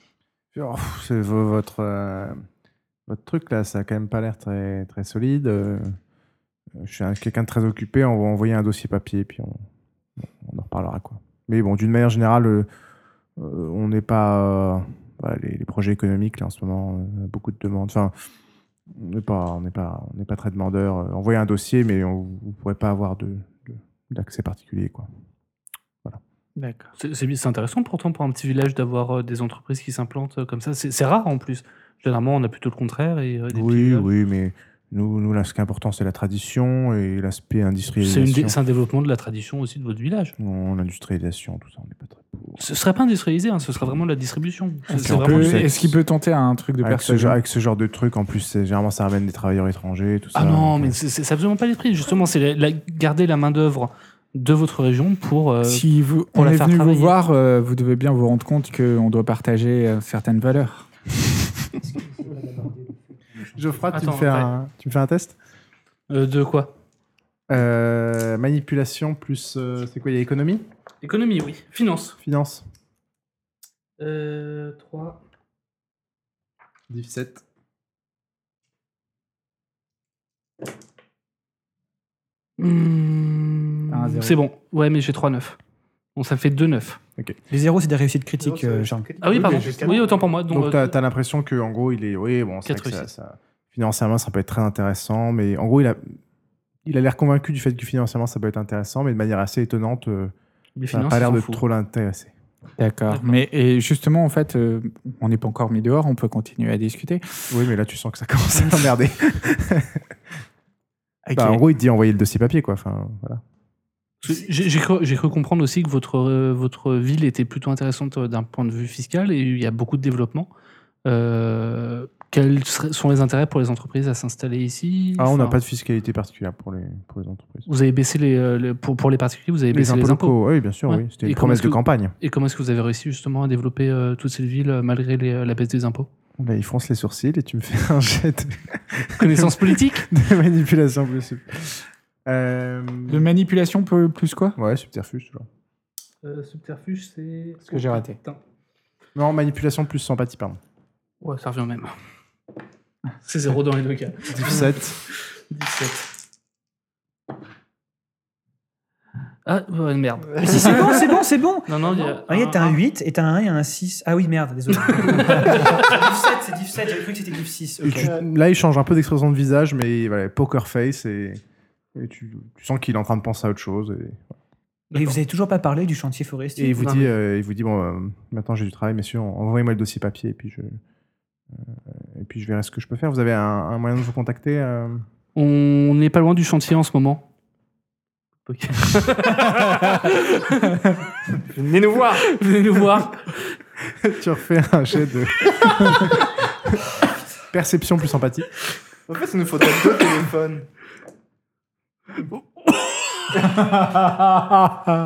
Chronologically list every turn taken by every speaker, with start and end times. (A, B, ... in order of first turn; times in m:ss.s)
0:00.5-0:02.4 A
0:03.1-0:06.0 A
0:06.8-0:09.6 A
0:10.2-0:12.7 A
0:13.4-0:18.1 A
0:18.9-0:25.1 A
0:26.6-0:26.9 B
0:27.0-0:34.1 C
0:33.5-0:38.6 A
0:38.0-0:40.3 C
0:40.4-0:42.6 A
0:42.6-0:45.8 C
0:44.9-0:47.4 B
0:45.0-0:46.0 A
0:46.8-0:51.0 A
0:50.4-0:57.2 C
0:55.6-1:00.9 B
1:01.9-1:02.9 D
1:03.6-1:05.4 A
1:03.9-1:04.5 C
1:06.1-1:06.7 C
1:07.5-1:10.6 A
1:11.0-1:12.2 C
1:12.2-1:12.7 A
1:14.0-1:15.2 C
1:16.9-1:17.4 A
1:22.6-1:25.6 C
1:23.9-1:24.4 B
1:26.2-1:27.0 C
1:27.5-1:29.1 D
1:28.4-1:30.2 E
1:29.2-1:30.9 C
1:29.3-1:30.0 B
1:30.5-1:36.0 A
1:32.6-1:33.1 C
1:36.9-1:40.3 A
1:40.8-1:41.6 C
1:40.9-1:42.3 A
1:42.8-1:47.2 B
1:43.1-1:43.4 C
1:47.5-1:50.1 A
1:51.3-1:51.6 B
1:51.4-1:53.4 A
1:54.2-2:00.5 C
2:01.0-2:05.6 C
2:05.2-2:07.7 A
2:07.7-2:10.4 C
2:09.7-2:12.2 A
2:10.9-2:16.1 C
2:16.4-2:23.3 A
2:19.2-2:20.1 C
2:23.1-2:24.6 B
2:24.6-2:25.5 A
2:26.2-2:28.4 C
2:27.7-2:28.2 B
2:29.2-2:30.6 A
2:31.2-2:31.9 C
2:33.2-2:36.1 C
2:34.3-2:35.0 A
2:39.5-2:41.1 C
2:40.4-2:48.1 D
2:40.5-2:40.9 E
2:41.7-2:42.8 C
2:44.9-2:46.0 C
2:47.8-2:51.4 A
2:51.9-2:54.4 A
2:54.9-2:55.2 C
2:54.9-2:56.9 D
2:56.6-3:00.8 A
2:56.8-2:57.1 C
3:01.5-3:05.0 A
3:05.4-3:07.3 C
3:08.4-3:10.9 C
3:11.5-3:12.3 E
3:12.1-3:13.6 C
3:14.0-3:16.9 A
3:17.5-3:18.5 A
3:19.1-3:20.7 E
3:23.4-3:25.0 B